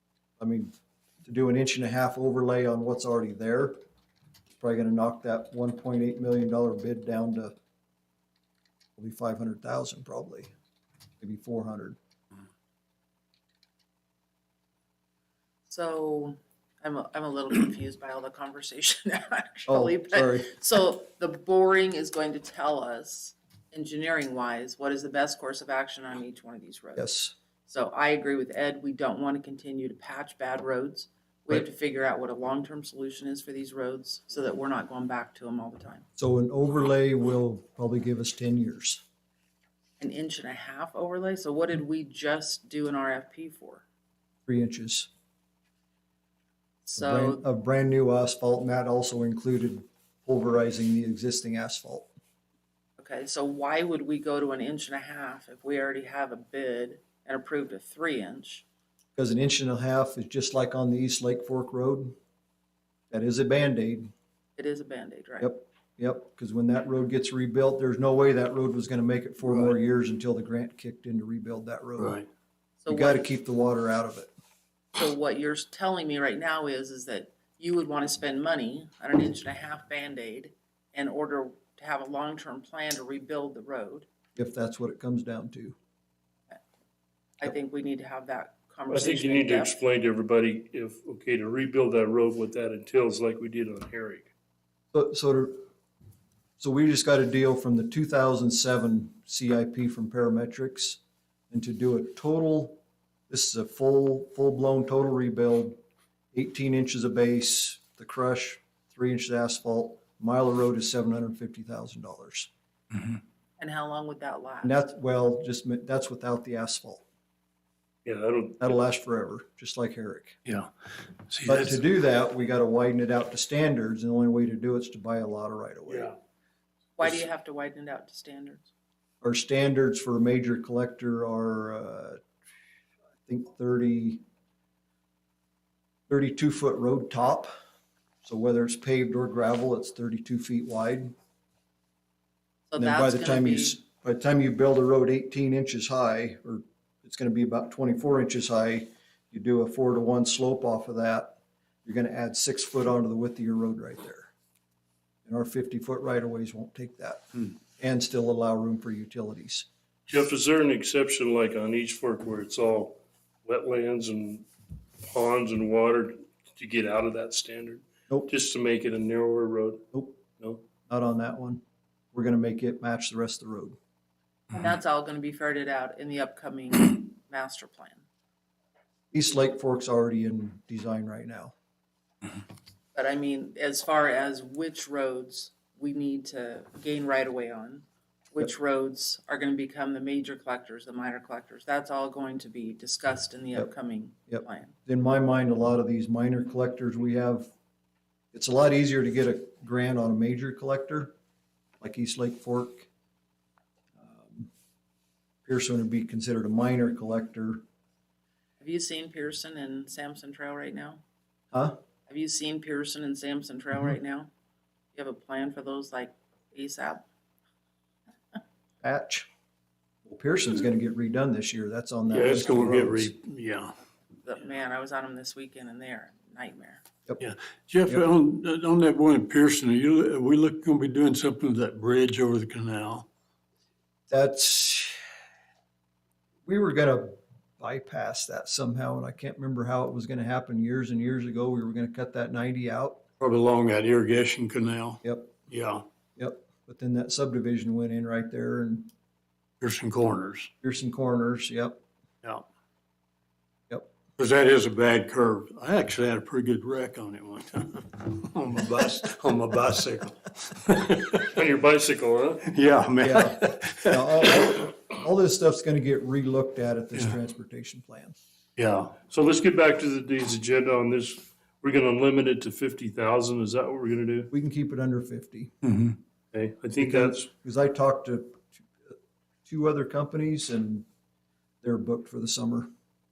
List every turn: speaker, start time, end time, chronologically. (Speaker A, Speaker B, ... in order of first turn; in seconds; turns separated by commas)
Speaker A: 0.4-3.8, Speaker A: 4.6-7.5, Speaker A: 9.0-10.5, Speaker A: 11.2-12.0, Speaker B: 15.7-27.1, Speaker A: 19.7-20.5, Speaker A: 27.0-27.3, Speaker B: 27.6-36.0, Speaker A: 36.2-39.0, Speaker B: 40.0-43.9, Speaker A: 44.5-45.1, Speaker B: 46.9-47.4, Speaker A: 46.9-52.1, Speaker B: 53.0-58.6, Speaker A: 59.2-62.1, Speaker A: 63.1-64.1, Speaker B: 64.6-65.5, Speaker A: 65.4-72.2, Speaker C: 72.0-72.3, Speaker B: 72.8-73.2, Speaker A: 72.9-74.3, Speaker B: 74.9-84.1, Speaker A: 84.3-85.8, Speaker B: 87.4-89.8, Speaker D: 88.9-94.3, Speaker A: 94.9-95.6, Speaker A: 96.6-101.0, Speaker A: 101.5-105.8, Speaker A: 106.3-112.5, Speaker B: 113.6-114.7, Speaker A: 114.6-117.0, Speaker D: 118.0-118.8, Speaker A: 118.6-120.4, Speaker C: 120.4-120.7, Speaker C: 121.3-121.8, Speaker A: 121.4-126.1, Speaker B: 127.0-128.7, Speaker A: 129.2-132.2, Speaker A: 133.2-134.2, Speaker A: 136.1-137.5, Speaker A: 138.2-141.1, Speaker B: 142.7-143.8, Speaker A: 142.8-154.3, Speaker A: 155.2-159.7, Speaker D: 160.1-164.4, Speaker D: 165.0-169.8, Speaker A: 169.9-170.2, Speaker D: 170.4-170.6, Speaker A: 170.9-171.6, Speaker A: 172.1-173.8, Speaker B: 174.5-178.0, Speaker A: 179.1-181.5, Speaker B: 182.9-194.7, Speaker A: 194.3-197.5, Speaker A: 198.3-201.1, Speaker A: 201.8-202.9, Speaker A: 204.0-204.5, Speaker A: 205.4-207.6, Speaker B: 208.6-211.0, Speaker A: 211.5-211.8, Speaker B: 212.1-214.3, Speaker B: 214.9-217.1, Speaker A: 218.8-219.3, Speaker A: 220.0-223.1, Speaker C: 222.1-223.7, Speaker B: 224.2-226.8, Speaker C: 227.2-233.1, Speaker A: 234.1-235.0, Speaker A: 236.4-243.0, Speaker C: 243.2-245.8, Speaker A: 245.0-245.4, Speaker A: 246.2-248.9, Speaker C: 249.6-250.5, Speaker A: 250.6-251.8, Speaker C: 254.2-261.3, Speaker D: 261.2-262.4, Speaker C: 262.4-264.5, Speaker A: 263.0-268.2, Speaker C: 268.6-269.0, Speaker D: 269.0-274.3, Speaker A: 274.3-275.5, Speaker C: 275.6-275.9, Speaker D: 276.3-277.3, Speaker A: 276.8-278.9, Speaker A: 279.4-280.9, Speaker A: 281.6-282.7